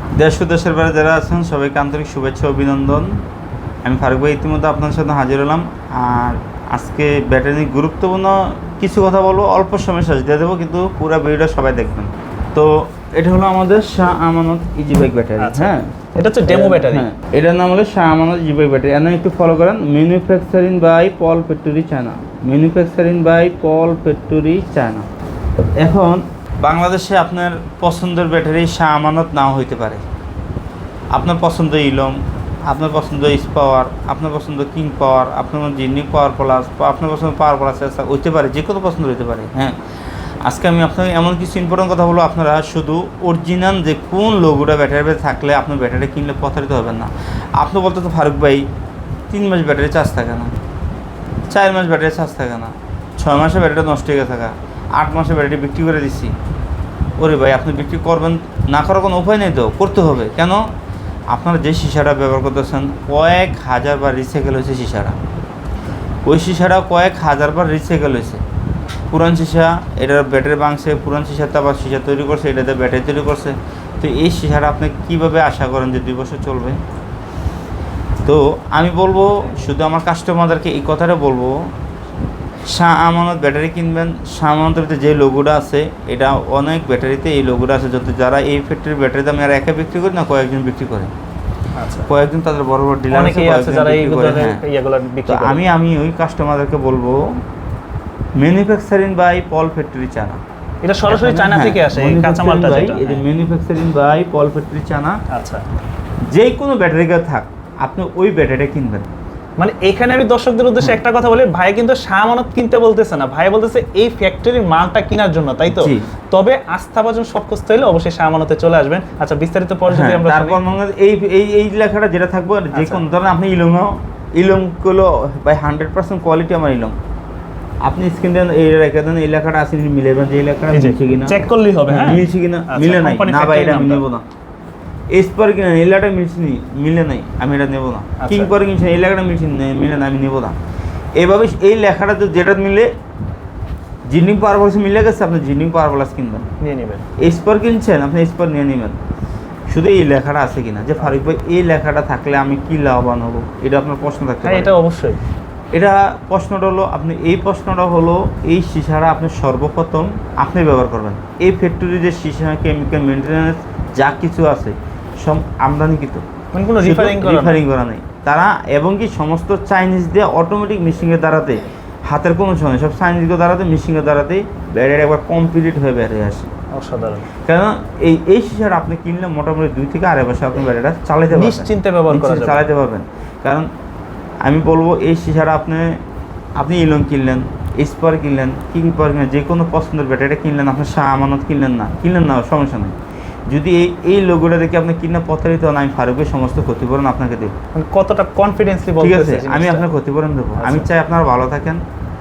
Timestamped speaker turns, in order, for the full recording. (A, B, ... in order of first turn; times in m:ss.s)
0:00.2-0:03.2 A
0:03.8-0:15.9 A
0:15.4-0:17.0 B
0:16.5-0:25.1 A
0:25.8-0:30.0 A
0:31.1-0:39.7 A
0:40.4-0:48.6 A
0:49.3-0:50.5 A
0:51.5-0:56.3 A
0:57.2-1:00.7 A
1:01.3-1:05.2 A
1:06.2-1:08.4 A
1:09.1-1:16.8 A
1:18.2-1:21.7 A
1:22.6-1:31.1 A
1:31.7-1:32.1 B
1:32.1-1:34.6 A
1:33.1-1:35.6 B
1:35.2-1:37.3 A
1:38.4-1:40.4 A
1:40.8-1:43.2 B
1:41.1-1:45.2 A
1:45.3-1:45.6 B
1:46.3-1:49.1 A
1:49.6-2:00.6 B
1:55.7-1:56.1 A
1:59.9-2:07.0 A
2:02.7-2:03.0 B
2:07.8-2:14.2 A
2:10.7-2:14.0 B
2:15.1-2:20.6 A
2:18.2-2:18.5 B
2:21.2-2:22.9 A
2:24.1-2:26.5 A
2:26.6-2:27.0 B
2:27.2-2:29.0 A
2:29.7-2:34.7 A
2:34.4-2:35.2 B
2:35.7-2:46.2 A
2:46.5-2:47.6 B
2:46.8-2:56.5 A
2:56.7-2:57.3 B
2:57.4-3:03.7 A
3:01.3-3:02.6 B
3:04.4-3:06.0 A
3:06.6-3:12.9 A
3:13.5-3:17.5 A
3:17.7-3:19.8 B
3:19.0-3:21.8 A
3:20.6-3:20.9 B